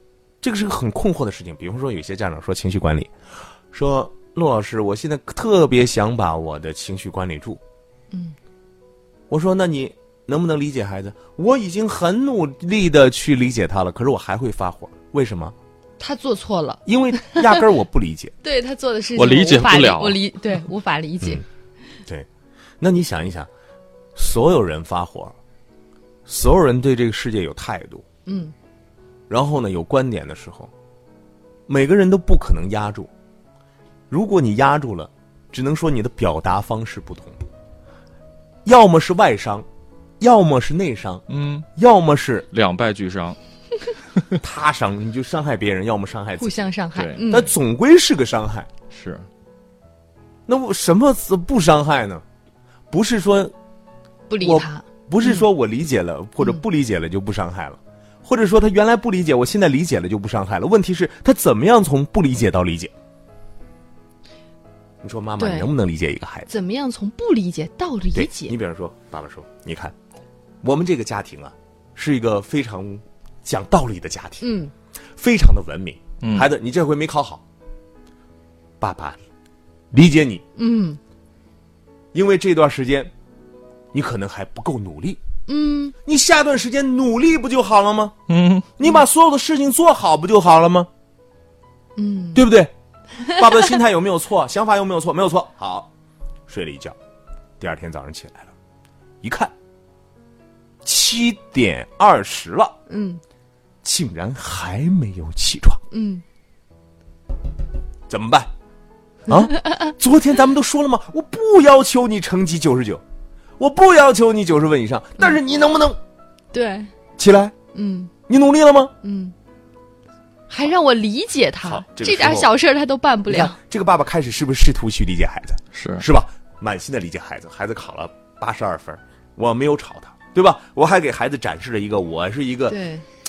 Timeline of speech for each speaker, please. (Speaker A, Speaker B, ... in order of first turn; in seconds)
Speaker A: 0.4-3.1, 3.7-7.6, 9.3-15.5, 16.9-18.3, 22.8-23.5, 24.1-25.4, 26.2-28.1, 29.3-30.7, 31.7-33.1, 34.1-37.4, 38.6-39.7, 40.2-42.5, 44.4-46.6, 47.3-48.7, 50.5-52.2, 52.9-53.5, 54.4-62.9, 65.0-66.5, 68.1-70.0, 70.6-74.5, 75.1-77.4, 78.8-79.2, 79.9-80.4, 82.1-83.1, 83.9-85.2, 86.0-88.1, 88.8-90.9, 92.3-92.7, 93.3-95.9, 96.5-97.0, 97.6-98.5, 99.2-99.5, 100.8-102.8, 103.8-105.8, 108.1-108.5, 109.3-113.0, 113.6-116.0, 117.2-117.5, 118.3-118.9, 121.6-122.5, 123.3-132.8
Speaker B: 8.1-8.3, 16.0-17.6, 18.4-21.4, 28.2-28.5, 46.4-47.5, 54.3-55.5, 65.4-65.7, 66.5-68.5, 74.4-74.7, 80.6-81.0, 85.5-85.9, 92.0-92.4, 102.9-103.2, 105.9-106.2, 116.5-116.9, 117.7-118.1, 119.0-119.3, 120.5-123.6, 132.7-133.0
Speaker C: 19.1-20.2, 41.3-41.7, 42.5-43.4, 46.9-47.2, 48.9-49.3, 76.2-76.5, 88.3-88.7, 125.7-126.0